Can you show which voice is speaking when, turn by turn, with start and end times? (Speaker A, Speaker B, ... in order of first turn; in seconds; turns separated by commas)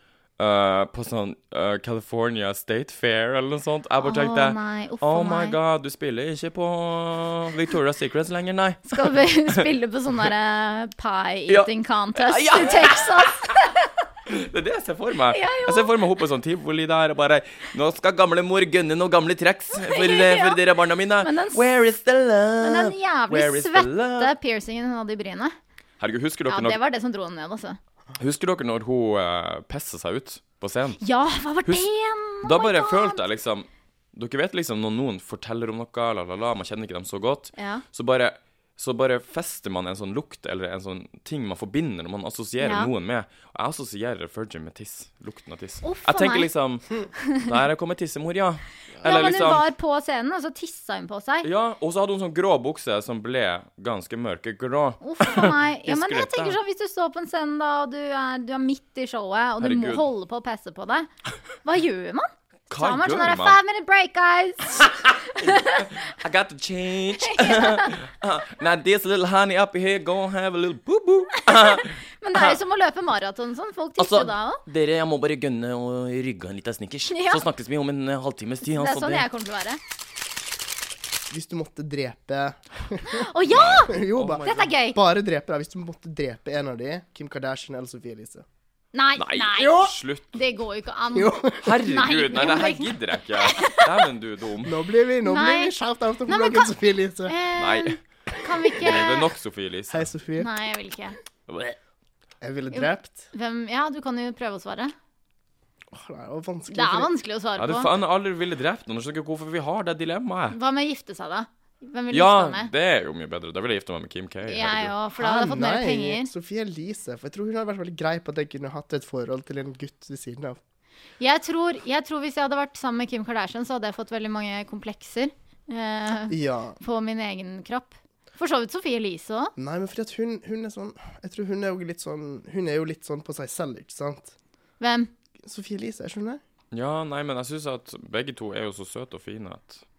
Speaker A: 0.4-9.7, Speaker B: 4.0-5.5, Speaker B: 8.9-13.9, Speaker A: 11.5-13.5, Speaker A: 14.3-24.3, Speaker B: 15.3-15.9, Speaker B: 19.8-20.6, Speaker B: 21.2-21.6, Speaker B: 22.6-25.5, Speaker A: 26.0-26.8, Speaker B: 26.5-27.8, Speaker A: 28.2-31.0, Speaker B: 31.0-33.2, Speaker A: 32.4-49.7, Speaker B: 37.5-37.8, Speaker B: 42.6-42.9, Speaker B: 45.8-46.5, Speaker B: 47.2-47.5, Speaker C: 49.0-49.4, Speaker B: 49.0-51.5, Speaker A: 51.4-56.6, Speaker B: 55.0-61.1, Speaker A: 59.6-60.0, Speaker B: 61.6-66.0, Speaker A: 62.7-63.6, Speaker A: 64.8-72.6, Speaker B: 67.2-68.0, Speaker B: 71.4-74.6, Speaker A: 74.0-79.2, Speaker B: 77.1-77.4, Speaker B: 78.8-79.8, Speaker C: 81.3-83.3, Speaker B: 83.0-85.0, Speaker A: 83.5-84.4, Speaker C: 83.8-88.4, Speaker B: 88.9-93.8, Speaker A: 89.2-90.3, Speaker C: 91.1-91.7, Speaker A: 91.6-94.8, Speaker C: 94.6-97.3, Speaker B: 95.2-95.7, Speaker B: 96.3-96.7, Speaker B: 97.2-99.3, Speaker A: 97.6-98.0, Speaker A: 98.8-100.1, Speaker C: 99.9-100.5, Speaker B: 100.4-101.2, Speaker A: 101.5-101.7, Speaker C: 102.4-103.3, Speaker B: 102.7-104.9, Speaker C: 105.9-107.1, Speaker B: 106.7-107.9, Speaker A: 107.6-110.5, Speaker B: 110.5-112.7, Speaker A: 112.1-114.9, Speaker B: 114.5-116.3, Speaker C: 115.2-120.6, Speaker B: 121.2-129.5, Speaker C: 126.3-126.8, Speaker C: 129.6-134.3, Speaker B: 134.8-135.1, Speaker C: 135.4-136.4, Speaker A: 136.7-139.8